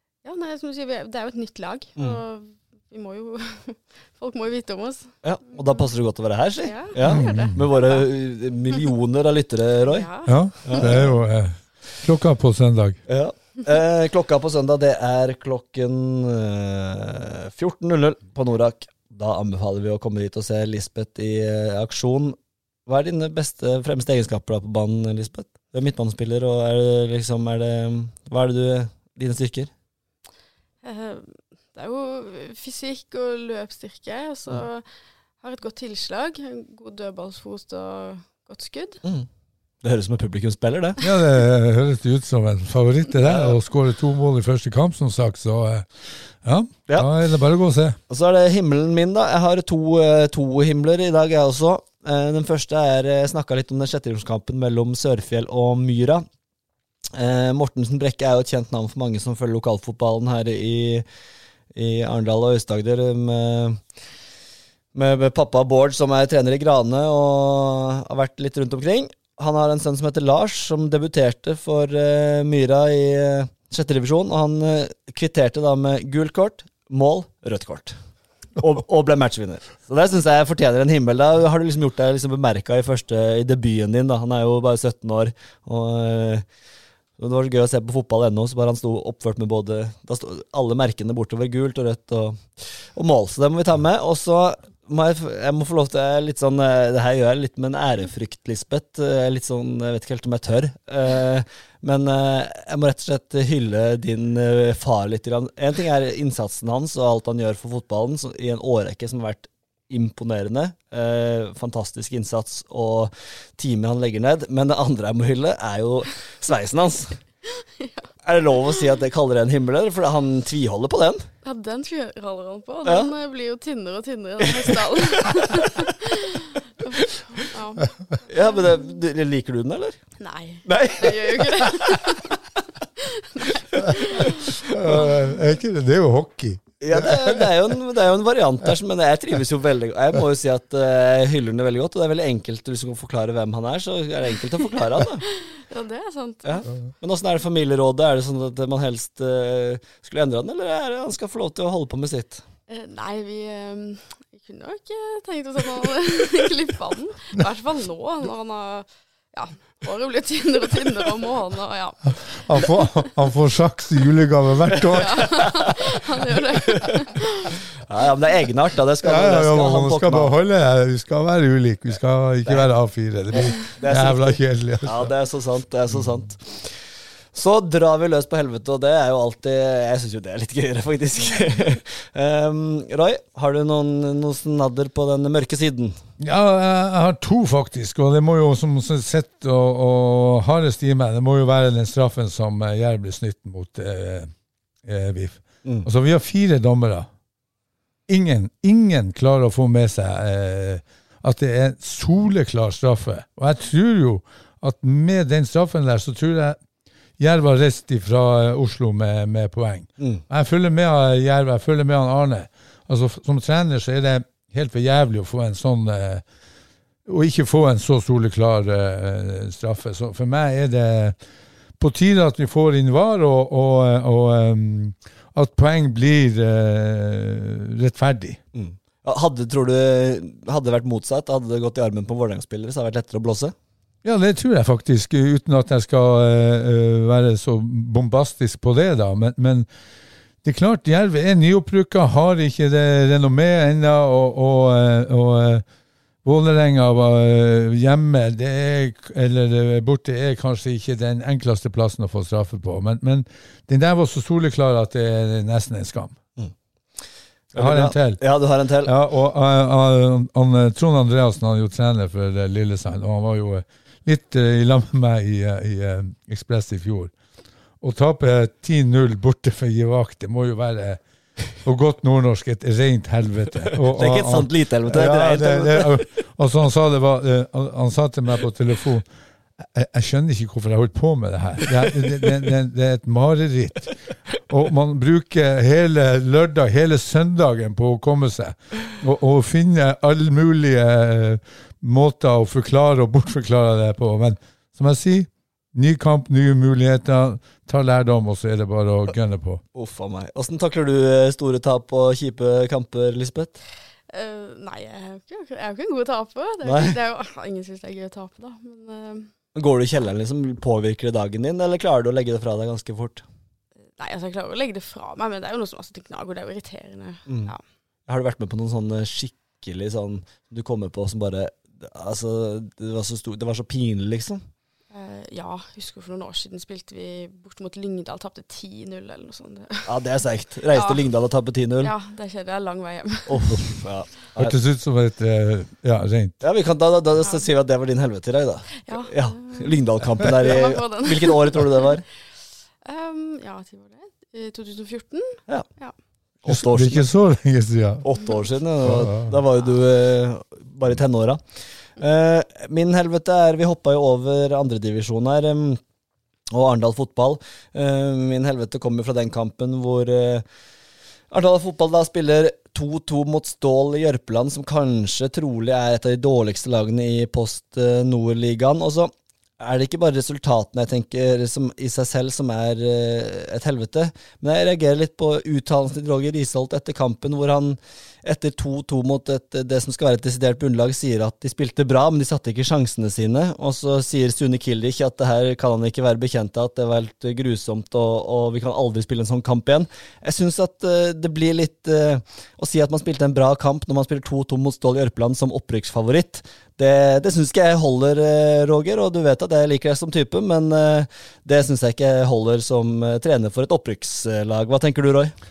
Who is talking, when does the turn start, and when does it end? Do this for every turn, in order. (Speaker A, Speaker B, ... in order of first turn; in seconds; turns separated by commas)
Speaker A: 0.2-5.9, Speaker B: 5.2-10.1, Speaker A: 6.6-8.1, Speaker C: 7.0-7.6, Speaker A: 9.9-10.9, Speaker C: 10.2-13.0, Speaker B: 10.6-11.1, Speaker B: 13.1-22.4, Speaker B: 22.9-29.7, Speaker A: 30.8-34.9, Speaker A: 35.4-39.0, Speaker B: 39.8-41.0, Speaker C: 41.0-48.0, Speaker B: 43.2-43.5, Speaker B: 46.9-47.1, Speaker B: 48.1-56.2, Speaker B: 57.1-61.0, Speaker B: 61.7-63.8, Speaker B: 64.9-78.0, Speaker B: 78.6-86.4, Speaker B: 87.2-117.2, Speaker A: 117.5-118.1, Speaker B: 118.2-121.3, Speaker A: 121.4-127.9, Speaker B: 122.8-123.1, Speaker B: 124.6-125.7, Speaker B: 128.3-130.0, Speaker A: 130.2-132.3, Speaker B: 130.6-132.0, Speaker A: 133.0-134.5, Speaker C: 134.7-137.5, Speaker B: 136.8-145.2, Speaker A: 145.2-146.7, Speaker B: 146.4-152.4, Speaker A: 152.7-162.7, Speaker C: 162.3-165.6, Speaker A: 164.9-167.6, Speaker B: 165.2-165.6, Speaker B: 167.9-170.3, Speaker C: 169.0-175.1, Speaker B: 173.5-176.8, Speaker B: 177.3-185.9, Speaker C: 186.2-194.3, Speaker C: 194.8-197.1, Speaker C: 198.1-206.6, Speaker C: 207.2-216.2, Speaker B: 210.0-210.2, Speaker C: 217.1-221.2, Speaker C: 221.8-228.4, Speaker B: 228.5-233.5, Speaker C: 234.0-239.7, Speaker C: 240.4-245.6, Speaker C: 246.2-256.1, Speaker B: 257.5-258.9, Speaker C: 257.5-258.2, Speaker C: 258.8-267.1, Speaker C: 267.8-271.0, Speaker C: 271.6-279.1, Speaker B: 273.8-276.1, Speaker C: 279.6-283.9, Speaker C: 284.5-299.6, Speaker B: 299.7-303.6, Speaker A: 304.1-309.3, Speaker B: 306.6-307.0, Speaker B: 309.5-313.2, Speaker A: 314.0-317.6, Speaker B: 317.3-317.5, Speaker B: 318.1-324.4, Speaker A: 324.9-329.9, Speaker B: 329.9-331.9, Speaker A: 330.7-331.0, Speaker A: 331.8-333.6, Speaker B: 333.3-334.6, Speaker C: 334.4-336.4, Speaker B: 336.4-342.0, Speaker A: 338.8-341.8, Speaker A: 342.8-345.9, Speaker B: 346.4-347.1, Speaker C: 346.5-348.1, Speaker B: 348.0-351.4, Speaker C: 348.8-349.4, Speaker B: 352.0-355.8, Speaker B: 356.5-360.4, Speaker B: 361.3-405.3